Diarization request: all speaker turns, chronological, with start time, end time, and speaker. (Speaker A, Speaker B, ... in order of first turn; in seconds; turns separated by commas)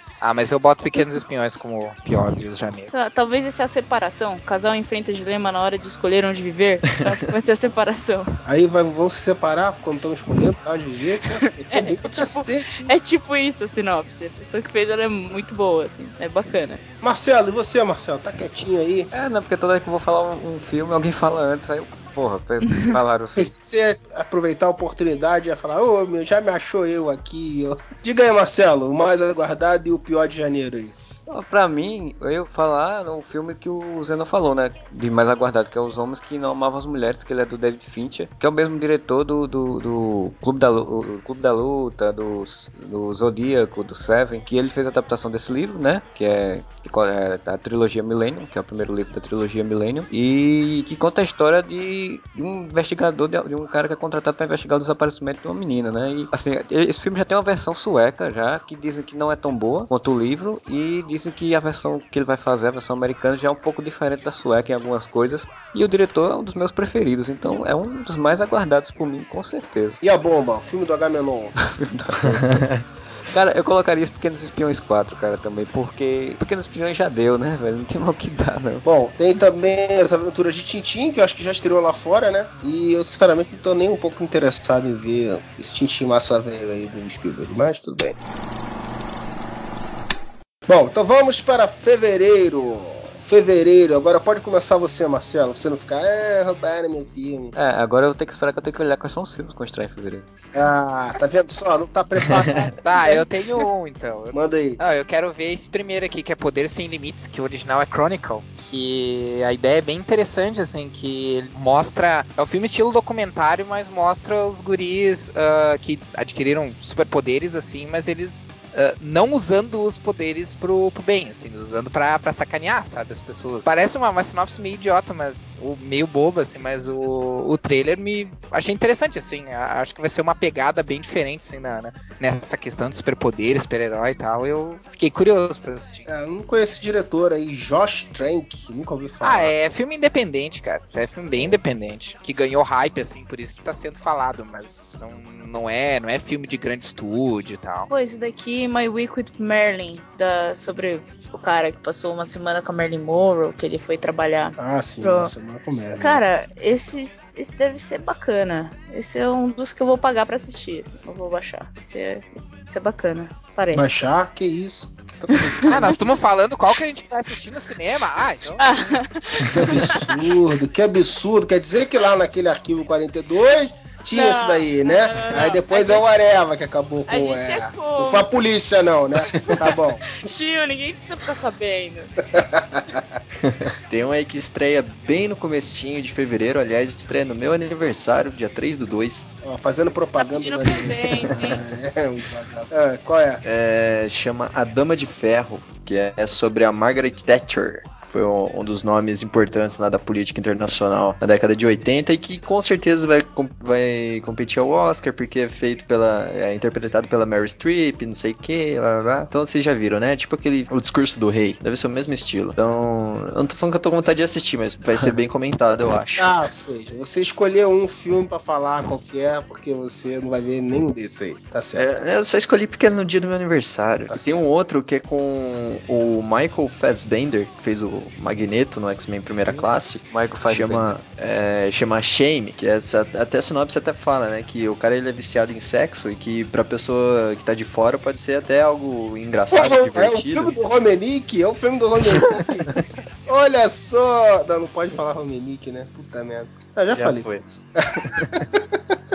Speaker A: 0.2-2.9, Speaker B: 1.0-1.2, Speaker B: 2.9-8.4, Speaker C: 8.4-12.9, Speaker B: 11.3-16.8, Speaker C: 17.0-19.1, Speaker D: 19.1-23.5, Speaker C: 23.4-30.9, Speaker D: 31.3-70.0, Speaker C: 70.0-71.5, Speaker D: 71.6-72.7, Speaker D: 73.3-78.8, Speaker C: 78.8-88.2, Speaker C: 90.7-97.5, Speaker D: 97.5-100.3, Speaker C: 100.5-103.6, Speaker A: 102.8-136.1, Speaker C: 104.3-104.8, Speaker C: 136.1-139.5, Speaker A: 139.2-147.9, Speaker B: 147.9-155.3, Speaker C: 154.6-156.2, Speaker B: 156.0-163.9, Speaker C: 163.7-166.0, Speaker B: 165.3-166.0, Speaker A: 165.7-169.0, Speaker B: 168.6-170.3, Speaker C: 169.5-180.1, Speaker B: 174.1-176.0, Speaker B: 177.1-178.3, Speaker B: 179.2-182.1, Speaker C: 182.3-183.0, Speaker E: 183.4-189.2, Speaker C: 189.4-193.4, Speaker B: 190.2-191.6, Speaker E: 193.4-216.3, Speaker C: 216.2-221.8, Speaker E: 221.8-240.6, Speaker C: 224.1-224.4, Speaker D: 230.1-230.9, Speaker C: 239.5-242.7, Speaker E: 242.1-242.7, Speaker C: 243.2-248.9, Speaker E: 246.9-247.4, Speaker E: 248.0-248.4